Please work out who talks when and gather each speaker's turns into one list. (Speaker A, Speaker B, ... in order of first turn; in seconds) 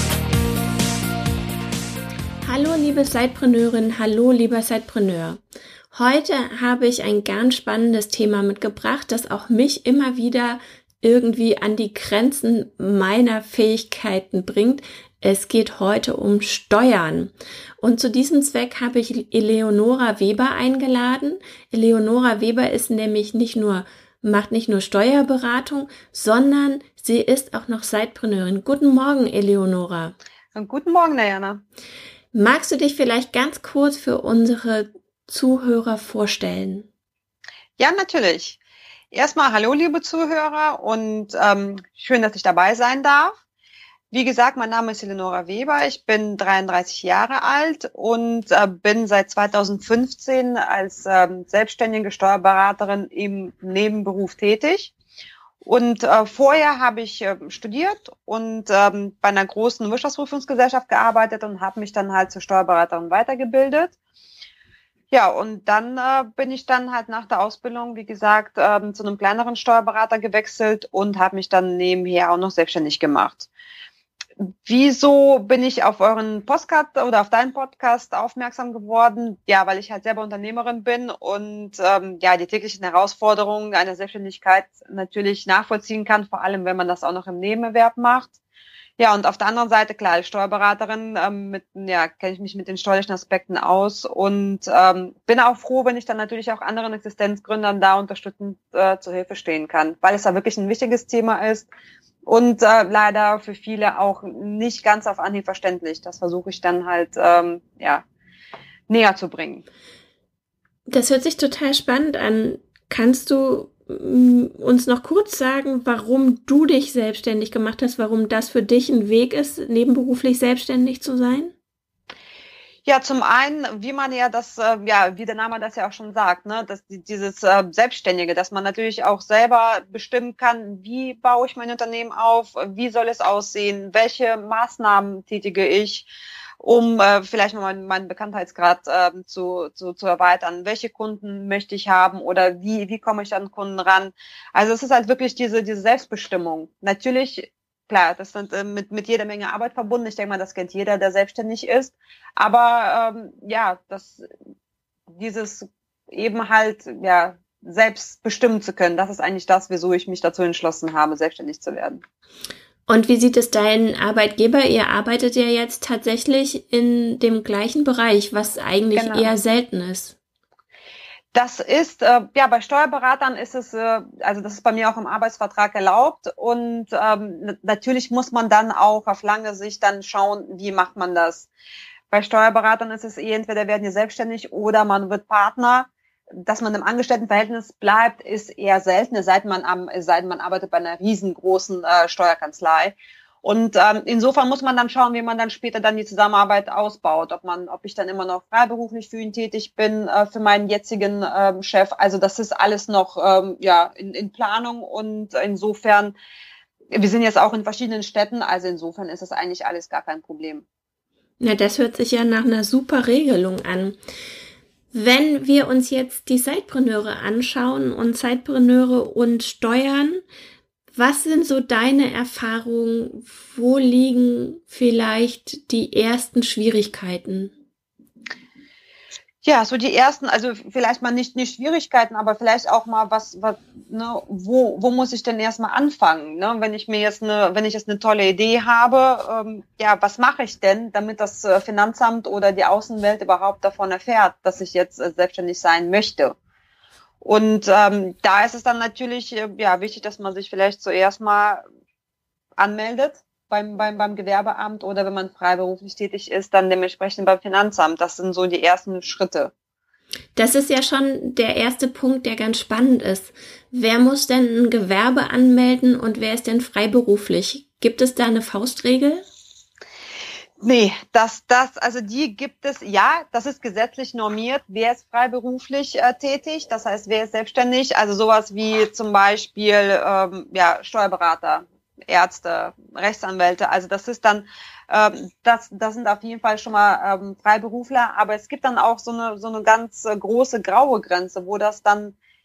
Speaker A: 2.4-5.4, 5.9-30.1, 32.3-36.9, 110.9-121.5, 162.9-170.2, 211.4-214.0, 214.9-220.2, 220.9-227.5, 260.3-269.2
Speaker B: 30.5-31.6, 37.8-38.6, 39.1-43.4, 44.1-54.9, 55.6-63.9, 65.1-73.5, 74.4-88.3, 89.0-101.7, 102.2-108.0, 108.9-109.6, 122.8-136.1, 136.6-154.3, 155.1-162.0, 168.9-169.3, 171.3-181.5, 182.1-206.1, 206.9-210.6, 229.4-246.4, 247.2-251.6, 252.6-259.5, 270.6-292.2